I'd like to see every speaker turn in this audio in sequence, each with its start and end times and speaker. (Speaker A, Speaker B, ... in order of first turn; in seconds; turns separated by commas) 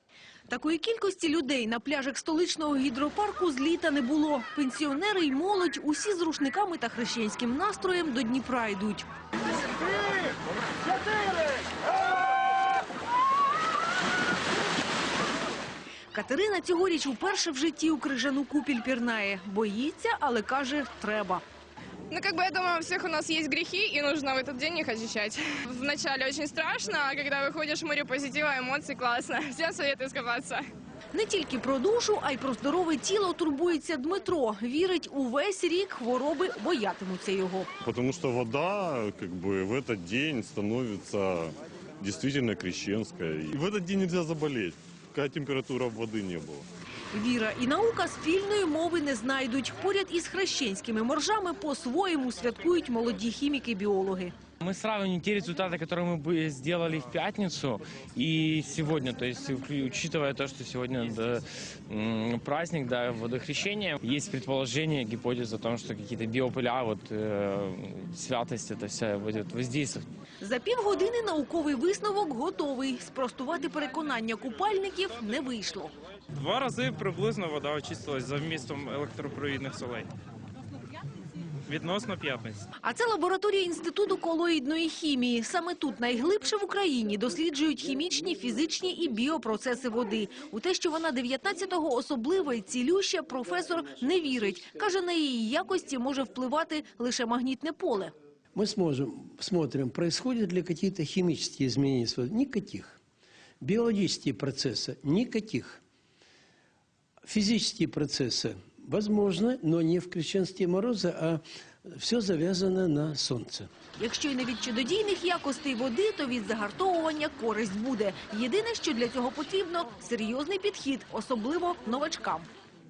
Speaker A: 0.5-9.1, Speaker A: 16.1-21.4, Speaker B: 22.1-30.7, Speaker A: 31.1-37.7, Speaker C: 37.8-46.7, Speaker A: 47.1-54.3, Speaker D: 54.6-70.1, Speaker A: 70.4-75.9, Speaker E: 76.3-80.1, Speaker E: 81.7-82.7, Speaker A: 82.8-98.1, Speaker F: 98.5-103.0, Speaker F: 103.6-105.8, Speaker F: 107.3-113.7, Speaker A: 114.0-122.5